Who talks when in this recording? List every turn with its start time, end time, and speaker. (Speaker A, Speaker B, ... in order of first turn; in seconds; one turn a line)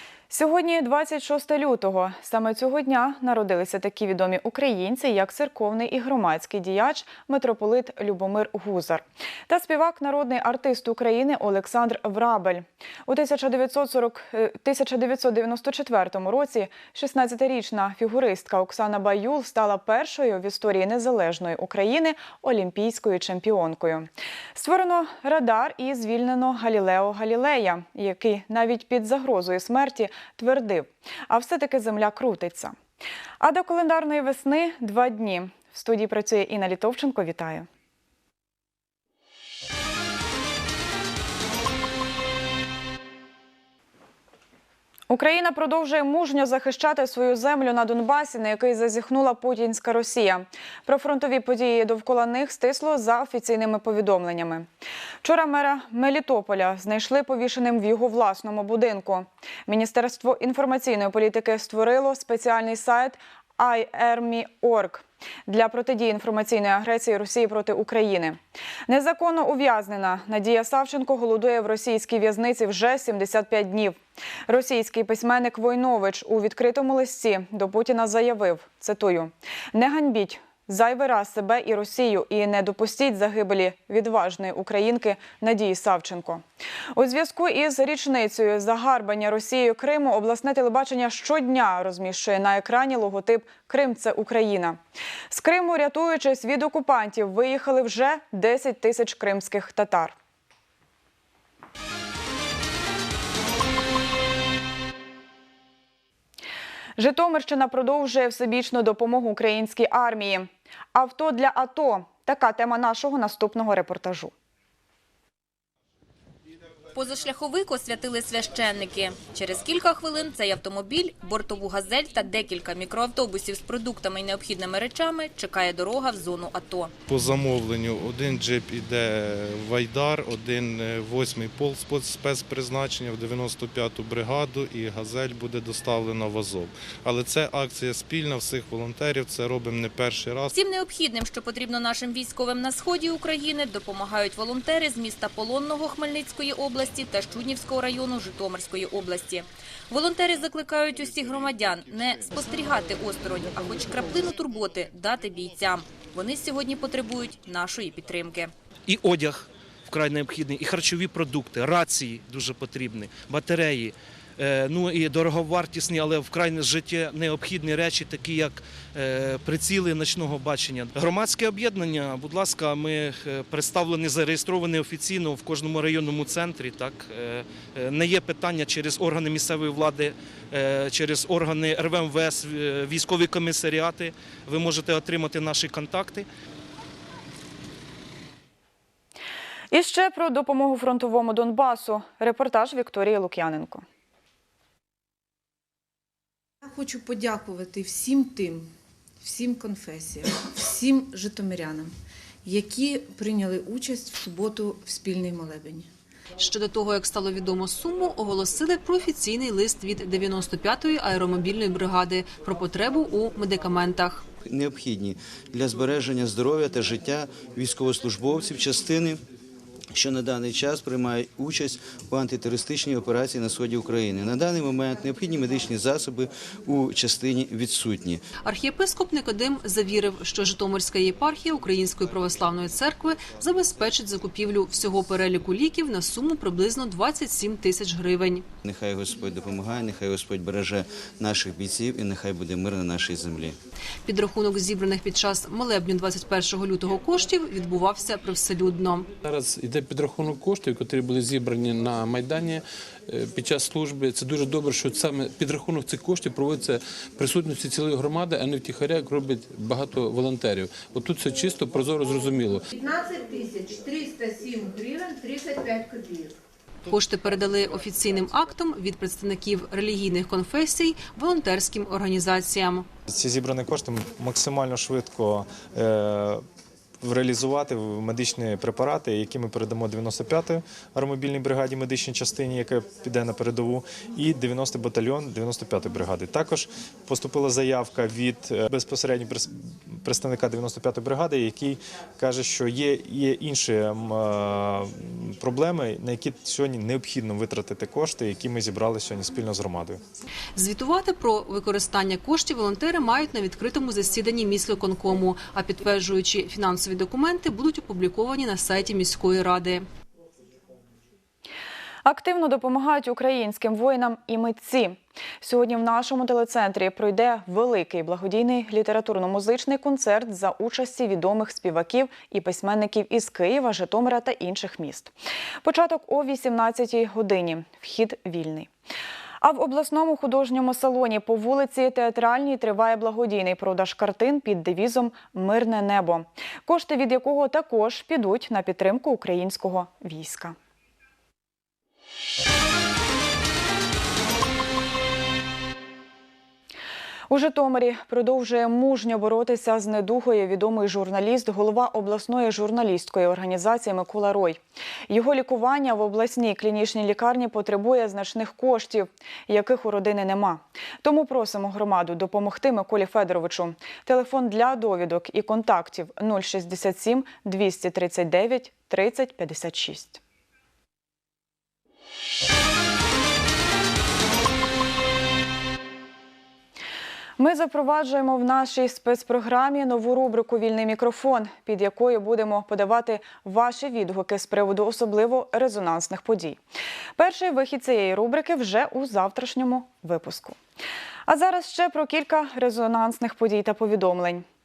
Speaker A: 0.3-32.7
Speaker A: 33.4-37.7
Speaker A: 45.1-54.7
Speaker A: 55.2-74.0
Speaker A: 74.5-86.4
Speaker A: 86.9-94.8
Speaker A: 95.3-100.1
Speaker A: 107.0-114.3
Speaker B: 116.9-126.9
Speaker C: 127.1-140.5
Speaker B: 140.6-158.5
Speaker D: 158.9-186.3
Speaker A: 189.7-193.8
Speaker E: 196.6-198.7
Speaker E: 199.2-201.9
Speaker E: 202.4-205.9
Speaker F: 206.4-214.2
Speaker G: 214.4-219.2
Speaker G: 219.9-228.2
Speaker F: 228.4-238.4
Speaker G: 238.6-243.6
Speaker F: 244.0-249.1
Speaker H: 249.2-262.6
Speaker I: 262.8-266.3
Speaker F: 266.9-272.9
Speaker J: 273.1-276.4
Speaker J: 277.0-300.0
Speaker F: 300.6-309.8
Speaker A: 312.0-328.7
Speaker A: 329.4-340.5
Speaker A: 347.3-370.2
Speaker A: 377.4-386.6
Speaker A: 387.2-390.6
Speaker A: 391.3-394.4